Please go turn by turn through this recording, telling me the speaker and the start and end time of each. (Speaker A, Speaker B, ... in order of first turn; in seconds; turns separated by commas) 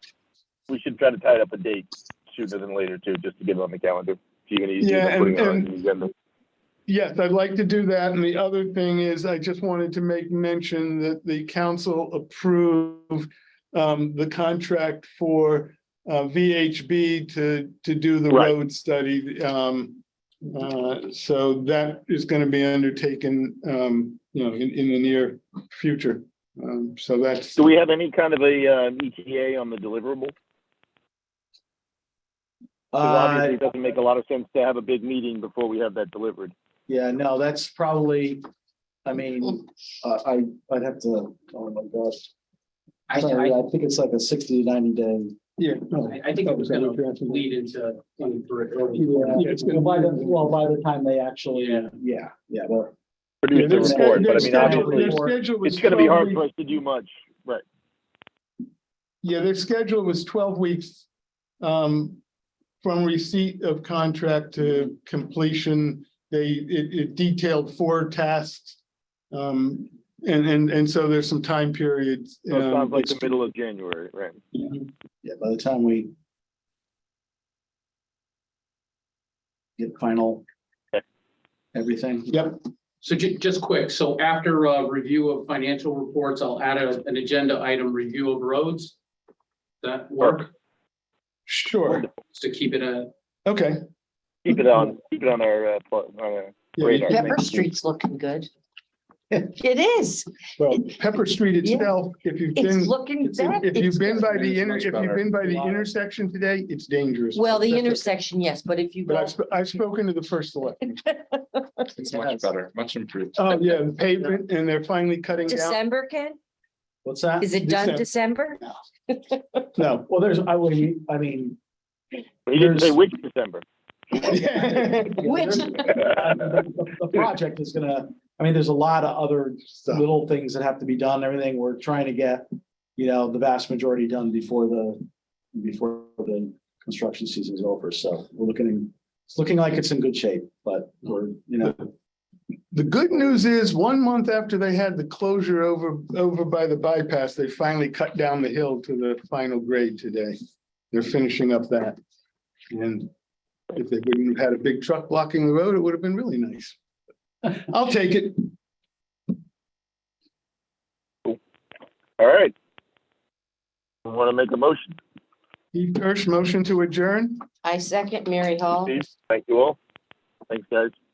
Speaker A: 0.7-6.1, Speaker B: 4.8-5.7, Speaker B: 6.9-27.6, Speaker A: 27.6-30.3, Speaker C: 32.9-33.6, Speaker A: 33.0-36.5, Speaker C: 36.9-38.4, Speaker C: 39.0-42.3, Speaker D: 43.1-43.6, Speaker C: 43.1-45.4, Speaker B: 45.6-47.5, Speaker D: 46.0-49.5, Speaker C: 49.0-52.9, Speaker B: 49.2-50.5, Speaker D: 51.5-51.9, Speaker A: 53.4-57.6, Speaker B: 53.5-56.4, Speaker C: 53.5-55.4, Speaker B: 59.2-61.0, Speaker B: 61.6-62.2, Speaker B: 62.8-68.8, Speaker B: 69.3-73.3, Speaker A: 72.5-74.4, Speaker C: 75.2-76.1, Speaker C: 79.8-80.4, Speaker C: 81.7-82.6, Speaker D: 83.0-88.9, Speaker D: 89.8-90.5, Speaker B: 91.5-92.1, Speaker D: 92.3-93.1, Speaker B: 93.5-93.8, Speaker A: 94.5-97.5, Speaker B: 96.8-97.5, Speaker E: 97.1-98.5, Speaker E: 99.4-100.9, Speaker B: 100.6-108.1, Speaker E: 101.6-101.9, Speaker E: 102.5-104.4, Speaker F: 104.3-105.7, Speaker E: 107.3-109.4, Speaker B: 109.1-111.0, Speaker E: 110.8-111.9, Speaker F: 112.0-113.5, Speaker B: 113.3-115.8, Speaker E: 115.5-116.4, Speaker C: 117.0-117.6, Speaker E: 117.4-118.6, Speaker B: 117.5-118.1, Speaker E: 119.1-119.6, Speaker B: 119.8-120.1, Speaker C: 120.1-121.6, Speaker A: 122.5-123.7, Speaker C: 122.5-123.0, Speaker B: 124.2-125.3, Speaker C: 125.0-141.9, Speaker E: 125.2-126.0, Speaker B: 142.7-150.4, Speaker B: 150.9-152.0, Speaker B: 152.7-153.1, Speaker B: 153.7-156.8, Speaker B: 157.4-158.5, Speaker A: 162.2-162.5, Speaker A: 164.1-165.0, Speaker B: 165.7-167.4, Speaker E: 167.6-168.9, Speaker A: 168.8-169.8, Speaker A: 170.5-170.9